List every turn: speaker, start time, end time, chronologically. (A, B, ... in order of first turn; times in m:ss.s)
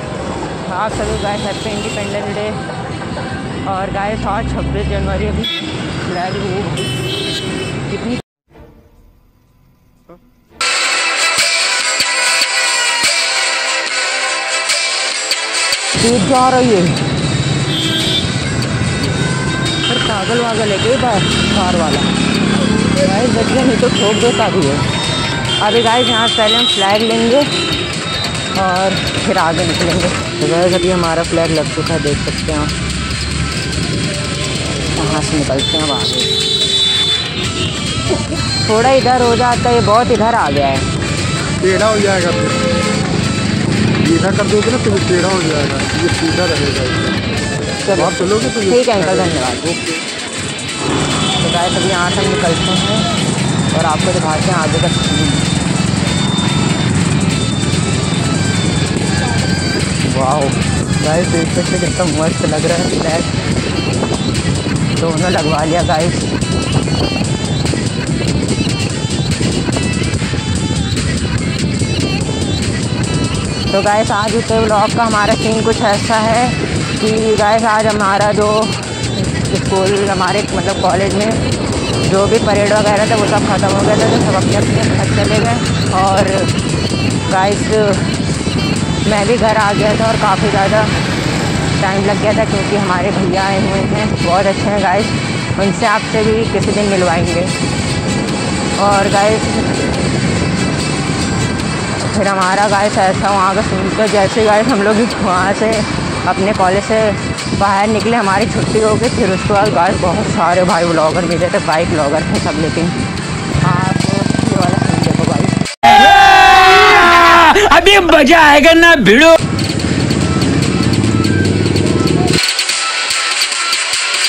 0:00.6-0:02.6 A
0:03.7-0:07.0 A
0:07.9-0:08.2 A
0:16.0-0:17.0 A
0:19.9-0:22.2 A
0:23.0-0:24.8 A
0:25.6-0:27.5 A
0:28.6-0:32.8 A
0:35.0-0:36.3 A
0:38.6-0:40.9 A
0:41.6-0:42.6 B
0:44.0-0:47.2 B
0:47.9-0:49.8 A
0:47.9-0:50.0 B
0:51.4-0:53.1 A
0:53.7-0:55.5 A
1:00.1-1:03.3 A
1:05.0-1:06.4 A
1:13.7-1:21.4 A
1:22.0-1:26.5 A
1:27.3-1:28.2 A
1:29.0-1:30.9 A
1:31.8-1:37.5 A
1:38.8-1:39.9 A
1:42.0-1:53.0 A
1:53.6-1:55.6 A
1:56.7-1:59.3 C